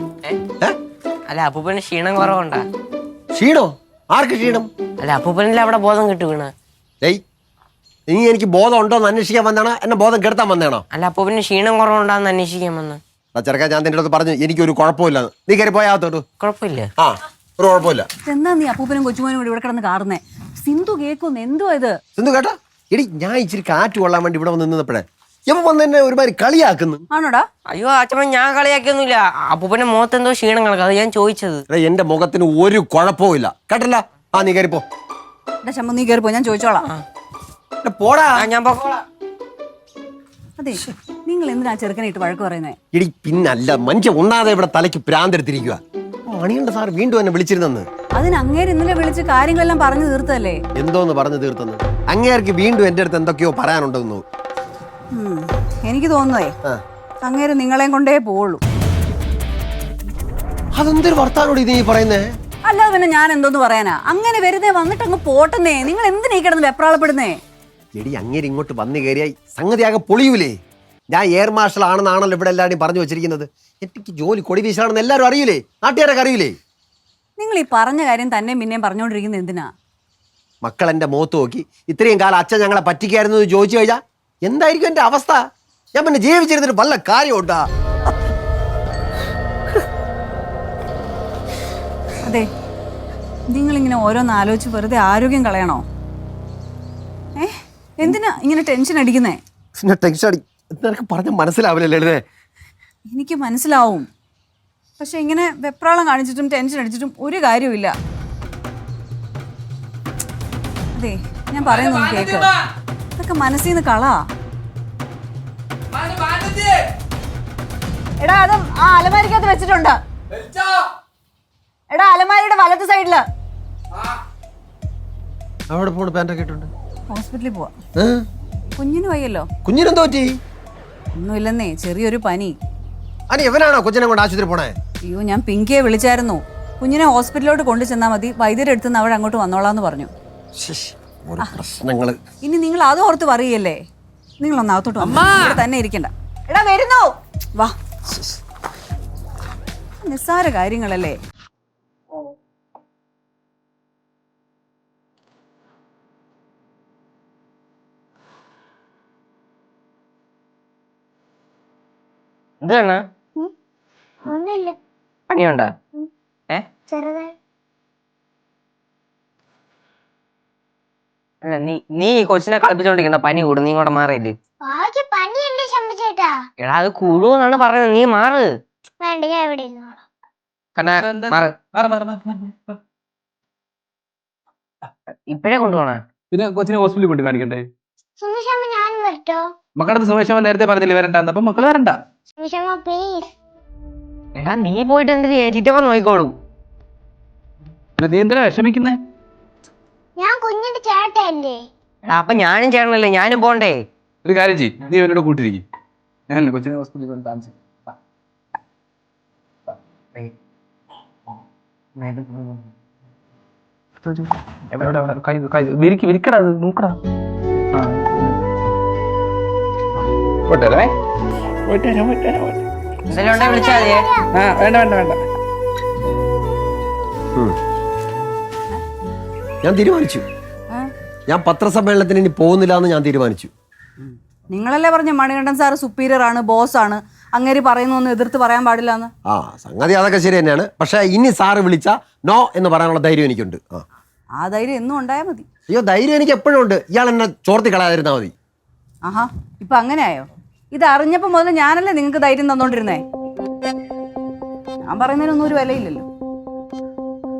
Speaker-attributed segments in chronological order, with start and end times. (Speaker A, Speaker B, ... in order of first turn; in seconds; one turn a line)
Speaker A: 1.3-2.6
Speaker B: 3.4-4.7
Speaker A: 5.0-6.5
Speaker B: 8.1-10.8
Speaker A: 10.9-13.0
Speaker B: 13.3-16.2
Speaker A: 16.4-16.9
Speaker B: 17.0-18.1
Speaker C: 18.2-22.0
Speaker B: 22.2-27.0
Speaker C: 27.1-27.4
Speaker A: 27.7-31.6
Speaker B: 31.7-34.8
Speaker C: 35.6-36.9
Speaker B: 37.8-38.4
Speaker A: 38.4-39.0
Speaker C: 40.6-42.8
Speaker B: 42.9-47.9
Speaker C: 48.2-50.6
Speaker B: 50.8-54.2
Speaker C: 55.1-56.5
Speaker C: 57.2-58.6
Speaker B: 60.8-62.3
Speaker C: 62.6-67.4
Speaker B: 68.0-70.5
Speaker B: 71.1-76.6
Speaker C: 77.4-79.7
Speaker B: 80.6-85.4
Speaker B: 86.0-87.6
Speaker C: 92.2-92.5
Speaker C: 93.5-95.8
Speaker C: 97.4-99.4
Speaker B: 99.8-102.2
Speaker C: 103.1-104.1
Speaker C: 105.0-107.9
Speaker C: 111.0-112.5
Speaker C: 113.2-114.2
Speaker D: 116.0-116.7
Speaker C: 118.2-120.0
Speaker C: 121.9-123.2
Speaker B: 125.7-126.7
Speaker C: 127.1-127.7
Speaker B: 128.0-128.2
Speaker C: 128.8-129.5
Speaker B: 129.7-130.3
Speaker C: 131.2-132.5
Speaker B: 133.3-134.7
Speaker C: 135.1-140.1
Speaker B: 140.6-142.2
Speaker C: 142.4-143.8
Speaker C: 144.4-147.7
Speaker C: 150.0-151.2
Speaker A: 162.6-163.0
Speaker E: 164.2-164.8
Speaker A: 165.3-165.7
Speaker E: 166.9-167.3
Speaker A: 171.4-174.3
Speaker E: 174.6-176.4
Speaker A: 176.6-178.5
Speaker E: 179.0-180.0
Speaker A: 180.8-181.5
Speaker D: 180.9-182.8
Speaker A: 185.3-186.0
Speaker D: 186.3-187.7
Speaker E: 188.2-189.5
Speaker D: 189.8-192.0
Speaker E: 192.4-193.3
Speaker A: 194.4-196.3
Speaker D: 198.0-199.0
Speaker E: 200.2-201.6
Speaker A: 202.1-203.8
Speaker D: 204.2-205.6
Speaker D: 206.3-207.9
Speaker A: 212.0-212.4
Speaker D: 214.1-217.0
Speaker D: 217.7-218.4
Speaker D: 220.5-220.9
Speaker D: 221.7-222.7
Speaker A: 223.1-224.1
Speaker E: 223.2-224.3
Speaker D: 224.3-225.3
Speaker B: 229.6-230.2
Speaker B: 231.3-233.5
Speaker C: 234.0-239.1
Speaker B: 239.3-243.8
Speaker C: 244.4-245.5
Speaker B: 245.7-248.3
Speaker C: 249.1-253.0
Speaker C: 254.9-256.1